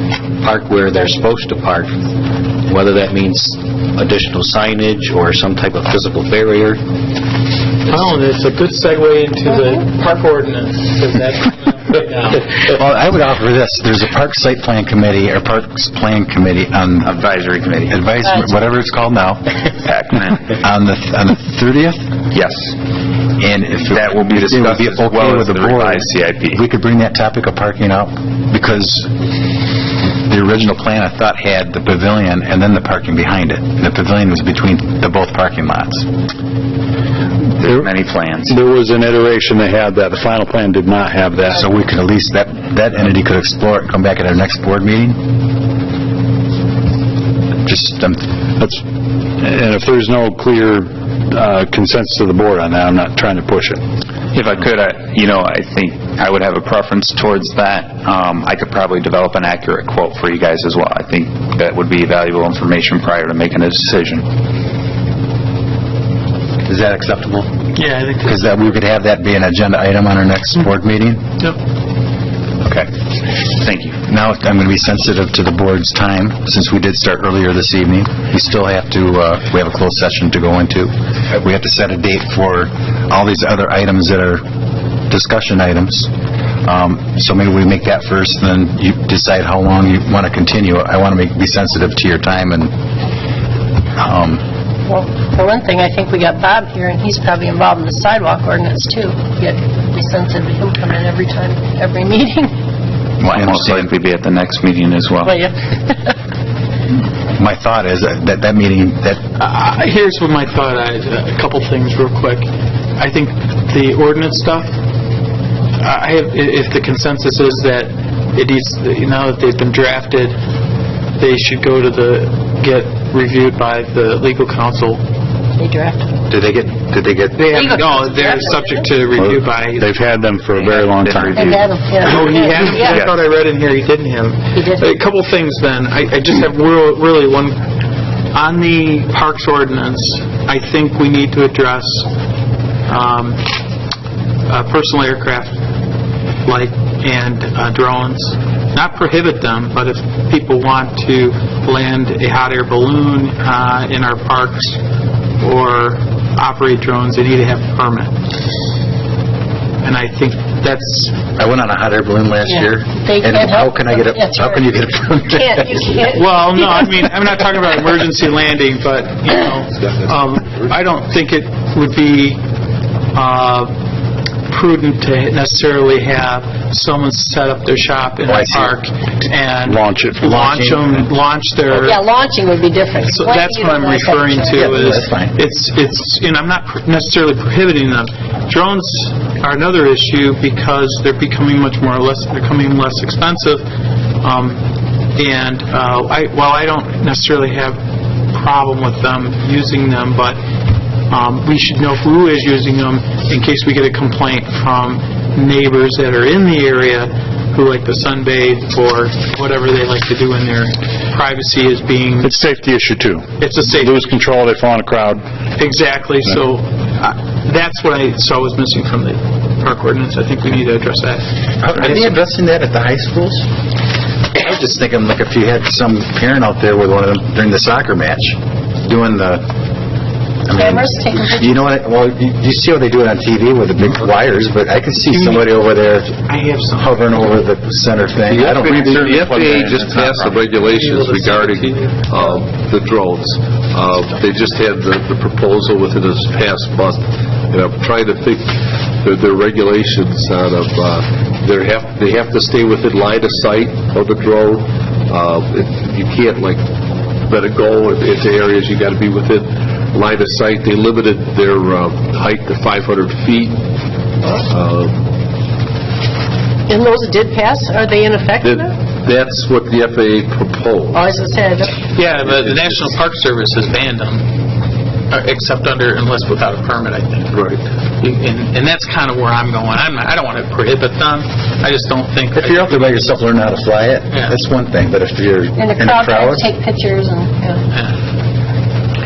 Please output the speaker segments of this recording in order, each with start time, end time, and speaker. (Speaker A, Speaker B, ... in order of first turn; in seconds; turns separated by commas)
Speaker A: 0.4-2.0, Speaker A: 2.7-6.8, Speaker B: 7.9-12.4, Speaker C: 12.6-17.1, Speaker D: 17.0-18.0, Speaker C: 17.9-19.5, Speaker D: 19.8-20.5, Speaker C: 20.6-22.1, Speaker D: 22.3-22.8, Speaker C: 23.4-29.1, Speaker D: 23.8-26.6, Speaker C: 30.2-36.1, Speaker E: 37.6-37.9, Speaker D: 37.8-38.6, Speaker E: 38.5-41.6, Speaker C: 41.5-45.2, Speaker C: 47.7-48.2, Speaker E: 48.6-48.8, Speaker E: 49.4-53.8, Speaker D: 54.3-64.3, Speaker C: 66.7-67.5, Speaker B: 67.8-68.5, Speaker C: 68.2-71.2, Speaker D: 73.6-74.0, Speaker C: 74.1-84.4, Speaker C: 85.1-86.1, Speaker C: 86.7-92.7, Speaker C: 94.0-94.4, Speaker F: 94.9-102.5, Speaker C: 103.2-103.9, Speaker D: 103.3-105.4, Speaker F: 105.2-106.1, Speaker C: 107.4-109.2, Speaker B: 109.4-114.7, Speaker B: 115.8-120.4, Speaker B: 121.2-125.0, Speaker F: 125.6-126.1, Speaker C: 126.3-127.7, Speaker B: 127.4-129.9, Speaker F: 127.6-128.9, Speaker E: 129.2-131.5, Speaker D: 130.6-132.0, Speaker F: 131.3-133.0, Speaker B: 132.0-137.6, Speaker D: 132.8-133.2, Speaker F: 134.6-134.9, Speaker B: 138.3-142.1, Speaker B: 142.9-143.4, Speaker B: 144.5-145.6, Speaker B: 146.4-154.8, Speaker B: 155.4-158.1, Speaker B: 159.8-161.2, Speaker C: 161.4-166.0, Speaker F: 162.5-164.8, Speaker F: 165.3-166.6, Speaker B: 166.1-172.4, Speaker G: 169.8-170.7, Speaker B: 173.1-173.7, Speaker B: 174.5-182.0, Speaker C: 178.2-178.8, Speaker E: 179.6-180.2, Speaker C: 180.2-181.1, Speaker F: 181.7-184.7, Speaker B: 183.0-193.6, Speaker C: 184.5-185.3, Speaker B: 194.2-194.6, Speaker B: 195.2-197.8, Speaker B: 198.3-200.4, Speaker B: 201.1-212.4, Speaker E: 212.2-215.3, Speaker B: 213.4-214.0, Speaker B: 215.6-222.1, Speaker C: 221.6-223.4, Speaker C: 224.3-229.4, Speaker C: 230.5-236.2, Speaker F: 230.5-231.7, Speaker B: 235.1-235.5, Speaker B: 236.2-237.4, Speaker C: 236.8-238.9, Speaker G: 238.3-256.6, Speaker D: 238.9-240.4, Speaker B: 240.6-242.3, Speaker G: 257.2-263.6, Speaker G: 264.5-265.0, Speaker F: 266.7-268.7, Speaker G: 268.4-271.1, Speaker F: 270.9-271.8, Speaker B: 271.8-274.3, Speaker G: 272.0-272.9, Speaker B: 275.1-283.2, Speaker G: 277.3-277.6, Speaker C: 282.3-286.5, Speaker B: 284.1-284.4, Speaker F: 285.6-287.6